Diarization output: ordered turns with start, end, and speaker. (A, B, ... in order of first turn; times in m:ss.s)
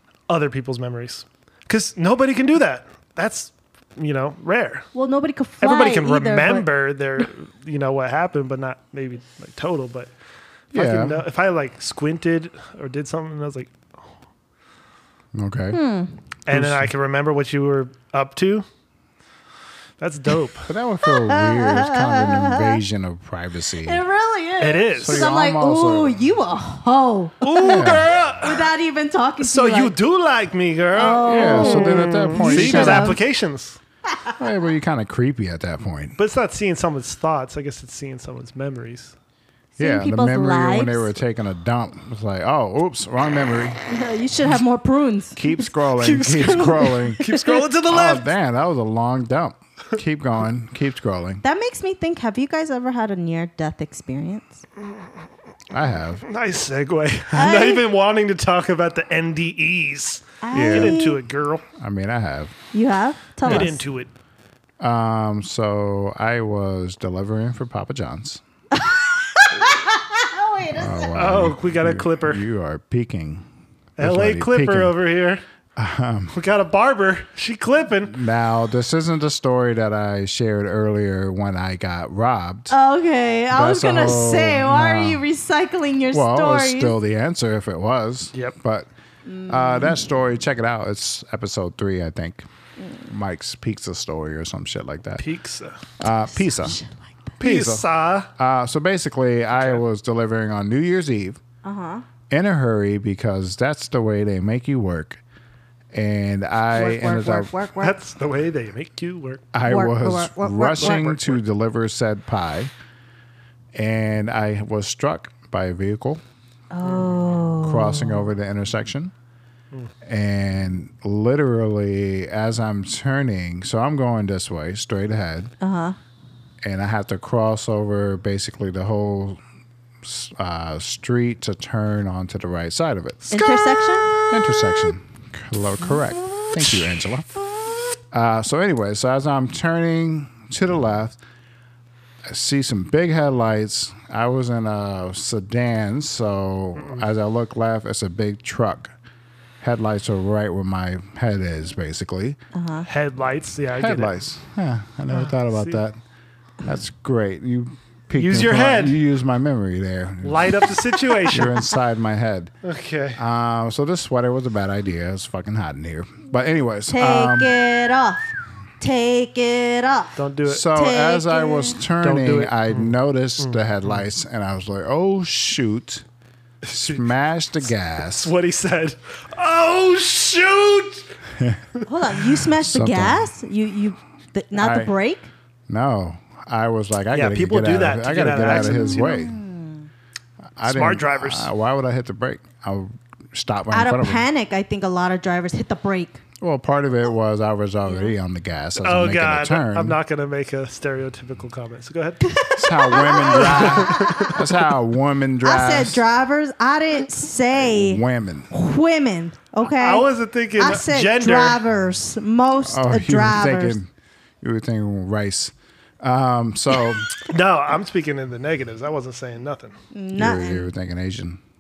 0:00.3-0:04.9 A
0:05.0-0:06.7 B
0:05.6-0:10.1 A
0:10.7-0:13.8 A
0:10.7-0:11.2 C
0:15.4-0:15.8 C
0:15.7-0:16.1 B
0:16.5-0:18.6 A
0:16.5-0:16.9 C
0:20.0-0:20.7 A
0:20.7-0:24.0 C
0:21.1-0:22.8 B
0:23.8-0:29.9 B
0:24.6-0:25.2 A
0:25.0-0:26.3 C
0:27.4-0:28.7 A
0:27.6-0:28.1 C
0:29.4-0:33.8 A
0:30.9-0:33.2 B
0:31.2-0:33.2 C
0:34.4-0:36.2 C
0:36.2-0:39.2 A
0:39.8-0:41.1 B
0:39.8-0:43.8 C
0:43.9-0:47.6 B
0:45.4-0:51.4 C
0:47.2-0:48.3 A
0:51.4-0:54.6 B
0:55.7-0:56.2 C
0:56.2-1:01.6 A
0:57.4-0:57.8 B
1:00.4-1:01.2 B
1:00.5-1:01.0 C
1:01.8-1:02.6 C
1:02.7-1:03.8 B
1:03.4-1:04.1 A
1:04.8-1:08.4 C
1:08.7-1:11.2 B
1:10.8-1:13.5 C
1:11.1-1:12.4 A
1:14.0-1:15.4 A
1:14.0-1:15.0 C
1:15.8-1:16.4 C
1:16.3-1:18.2 A
1:18.1-1:22.8 C
1:22.7-1:27.0 B
1:23.5-1:25.2 C
1:26.1-1:28.9 C
1:29.3-1:30.1 B
1:29.5-1:32.5 C
1:32.8-1:33.1 B
1:33.1-1:35.2 C
1:35.2-1:35.8 A
1:36.0-1:36.8 C
1:36.0-1:37.0 B
1:37.4-1:41.4 C
1:37.4-1:38.3 A
1:41.6-1:42.0 B
1:42.3-1:45.2 C
1:45.9-1:47.5 C
1:46.7-1:48.0 B
1:47.8-1:49.5 A
1:49.5-1:52.7 C
1:49.7-1:51.1 B
1:50.8-1:51.4 A
1:53.8-1:56.2 C
1:56.7-1:58.3 B
1:56.8-1:57.6 A
1:57.6-1:59.1 C
2:00.0-2:05.5 C
2:05.6-2:06.0 B
2:06.6-2:09.4 C
2:10.0-2:13.3 C
2:13.2-2:15.0 A
2:13.3-2:14.1 B
2:14.3-2:17.3 C
2:16.3-2:16.8 A
2:18.1-2:21.2 C
2:22.2-2:28.9 C
2:26.8-2:27.0 A
2:29.6-2:32.4 C
2:32.5-2:32.9 B
2:32.9-2:34.2 A
2:33.7-2:36.0 C
2:35.1-2:35.8 A
2:36.6-2:42.5 C
2:38.1-2:39.0 A
2:40.2-2:41.6 A
2:42.6-2:43.2 A
2:43.2-2:47.5 C
2:46.9-2:50.2 B
2:50.2-2:50.7 A
2:50.4-2:56.0 C
2:50.7-2:51.8 B
2:52.0-2:54.0 A
2:56.6-2:57.1 A
2:56.7-2:58.3 C
2:58.0-3:01.2 A
3:01.4-3:01.6 C
3:01.9-3:05.3 B
3:02.6-3:03.3 C
3:04.6-3:04.9 C
3:05.7-3:09.4 C
3:07.1-3:09.3 A
3:08.6-3:09.9 B
3:10.6-3:14.3 C
3:10.6-3:11.5 A
3:13.7-3:16.2 B
3:16.4-3:20.0 C
3:17.9-3:18.1 B
3:18.8-3:22.3 A
3:22.2-3:24.4 B
3:22.6-3:26.0 C
3:23.2-3:24.4 A
3:25.4-3:33.8 B
3:27.6-3:28.5 C
3:29.6-3:31.6 A
3:32.6-3:33.9 C
3:34.4-3:37.2 C
3:37.2-3:39.8 A
3:39.9-3:40.7 B
3:40.2-3:41.4 C